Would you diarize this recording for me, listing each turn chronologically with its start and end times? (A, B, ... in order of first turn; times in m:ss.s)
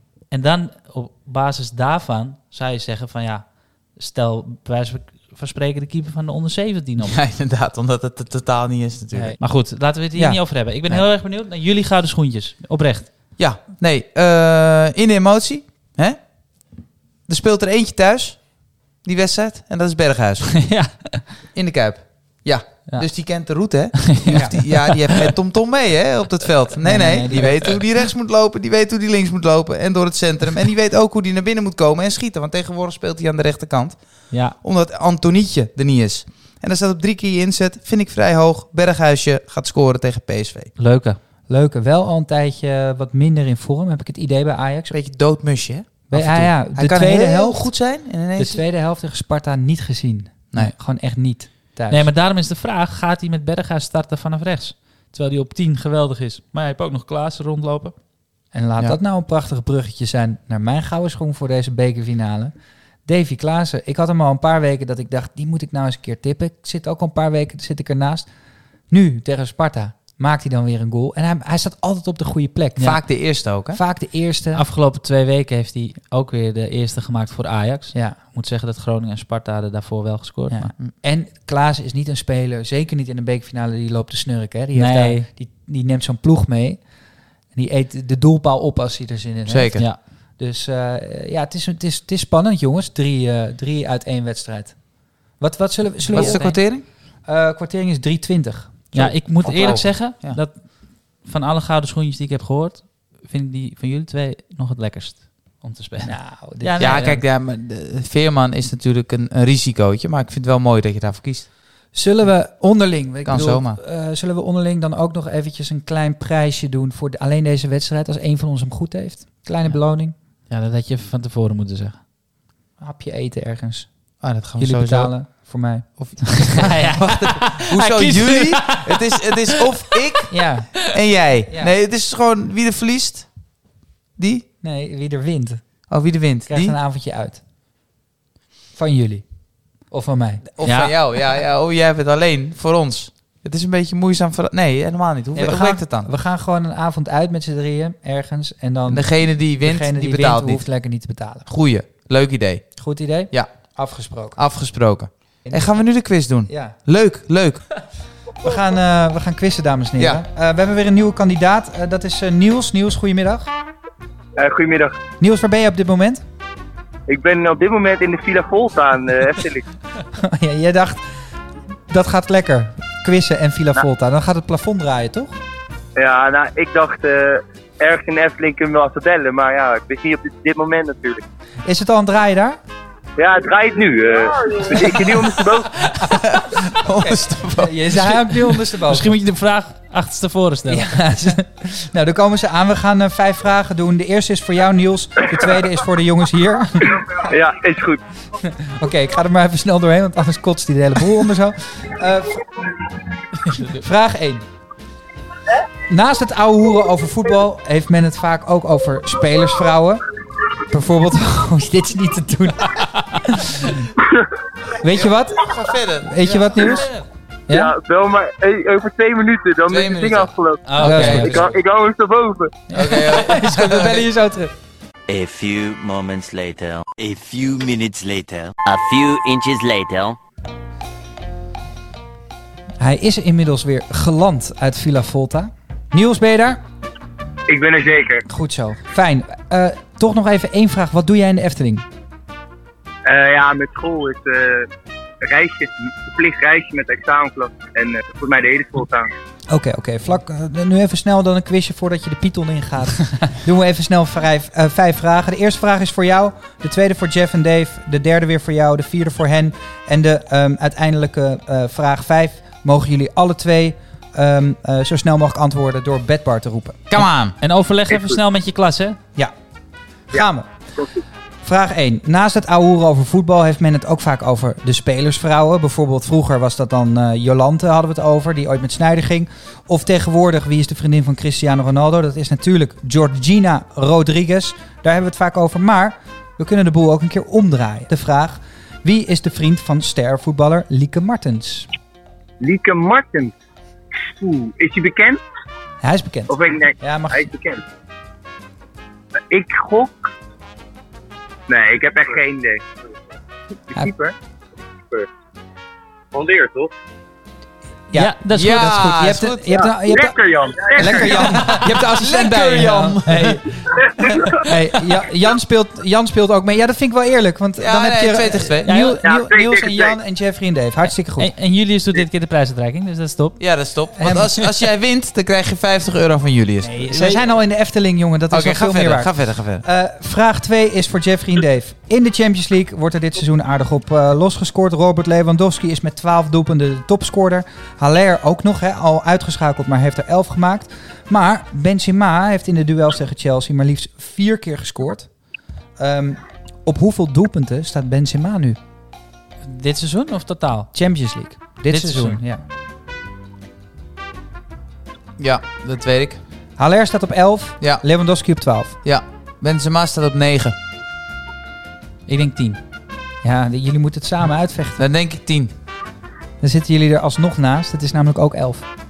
0:00.3-0:07.2 A
0:07.1-0:09.4 B
0:09.1-0:13.1 A
0:10.2-0:11.1 B
0:13.4-0:20.7 B
0:20.6-0:21.3 A
0:21.5-0:40.7 B
0:22.9-0:23.5 A
0:24.3-0:24.6 C
0:24.4-0:24.8 A
0:26.8-0:27.8 C
0:34.3-0:34.6 A
0:40.8-0:41.2 A
0:41.5-0:45.0 C
0:44.9-0:48.6 B
0:46.1-0:52.1 C
0:51.9-0:58.0 A
0:58.5-1:14.6 C
1:12.8-1:13.8 B
1:14.6-1:20.7 A
1:17.9-1:18.2 C
1:20.5-1:39.2 C
1:24.8-1:25.2 A
1:29.5-1:29.8 B
1:36.0-1:36.6 A
1:36.1-1:36.8 B
1:38.9-1:47.2 A
1:39.0-1:40.4 B
1:46.0-1:47.1 C
1:46.8-1:51.5 B
1:51.9-2:00.2 C
1:53.2-1:53.8 B
1:59.6-2:02.0 A
2:02.8-2:07.3 C
2:04.2-2:14.4 B
2:06.5-2:09.0 A
2:10.3-2:10.9 C
2:11.5-2:11.7 C
2:14.6-2:15.9 C
2:15.9-2:16.8 B
2:16.5-2:17.4 C
2:18.7-2:20.4 C
2:20.6-2:26.1 B
2:20.6-2:20.9 A
2:25.4-2:31.5 C
2:28.9-2:30.7 B
2:31.5-2:37.9 B
2:32.8-2:34.4 C
2:35.4-2:36.8 C
2:38.4-2:43.5 C
2:44.4-2:45.0 D
2:45.2-2:46.2 C
2:47.1-2:49.7 D
2:50.1-2:51.1 C
2:51.9-2:55.4 C
2:56.0-3:01.2 D
3:01.6-3:02.6 C
3:03.2-3:05.8 D
3:06.0-3:08.6 B
3:07.0-3:09.2 C
3:08.9-3:11.0 A
3:10.7-3:17.3 C
3:17.2-3:18.0 D
3:18.4-3:22.5 C
3:23.5-3:23.8 A
3:23.8-3:24.5 C
3:25.9-3:30.0 C
3:30.6-3:33.9 C
3:34.0-3:34.3 D
3:34.8-3:35.5 C
3:34.8-3:36.1 B
3:36.0-3:36.9 C
3:36.2-3:37.0 A
3:37.5-3:37.7 C
3:37.5-3:42.6 D
3:39.7-3:41.6 B
3:40.7-3:41.4 A
3:40.8-3:41.4 C
3:42.7-3:44.5 C
3:42.7-3:44.1 B
3:45.1-3:50.2 E
3:52.8-3:56.6 C
3:57.5-3:58.2 D
3:58.3-4:01.9 C
4:03.1-4:04.7 D
4:05.2-4:09.1 D
4:09.5-4:27.0 C
4:26.9-4:27.4 B
4:27.4-4:29.0 A
4:27.9-4:28.2 D
4:30.1-4:30.5 C
4:31.4-4:51.7 C
4:52.4-4:53.3 D
4:54.0-4:55.2 D
4:55.8-4:57.3 C
4:56.3-4:57.6 D
4:59.3-5:00.1 D
5:01.5-5:02.6 D
5:03.7-5:04.2 D
5:06.1-5:06.7 D
5:07.9-5:10.2 C
5:07.9-5:08.7 A
5:08.4-5:09.6 B
5:09.6-5:11.3 D
5:10.8-5:13.8 C
5:10.8-5:13.4 B
5:13.8-5:14.4 D
5:14.4-5:21.3 C
5:17.6-5:18.7 B
5:18.7-5:19.0 A
5:19.0-5:20.0 D
5:21.2-5:23.5 A
5:23.4-5:26.8 B
5:24.0-5:24.4 C
5:26.7-5:45.2 C
5:26.8-5:27.2 A
5:28.3-5:29.6 B
5:45.8-5:48.6 C
5:49.4-5:50.7 A
5:50.7-5:52.4 C
5:51.7-5:52.2 A
5:55.2-5:56.2 B
5:56.6-5:58.8 C
5:58.8-6:00.6 B
6:02.1-6:02.6 A
6:03.2-6:04.9 C
6:04.8-6:05.5 B
6:06.4-6:08.7 C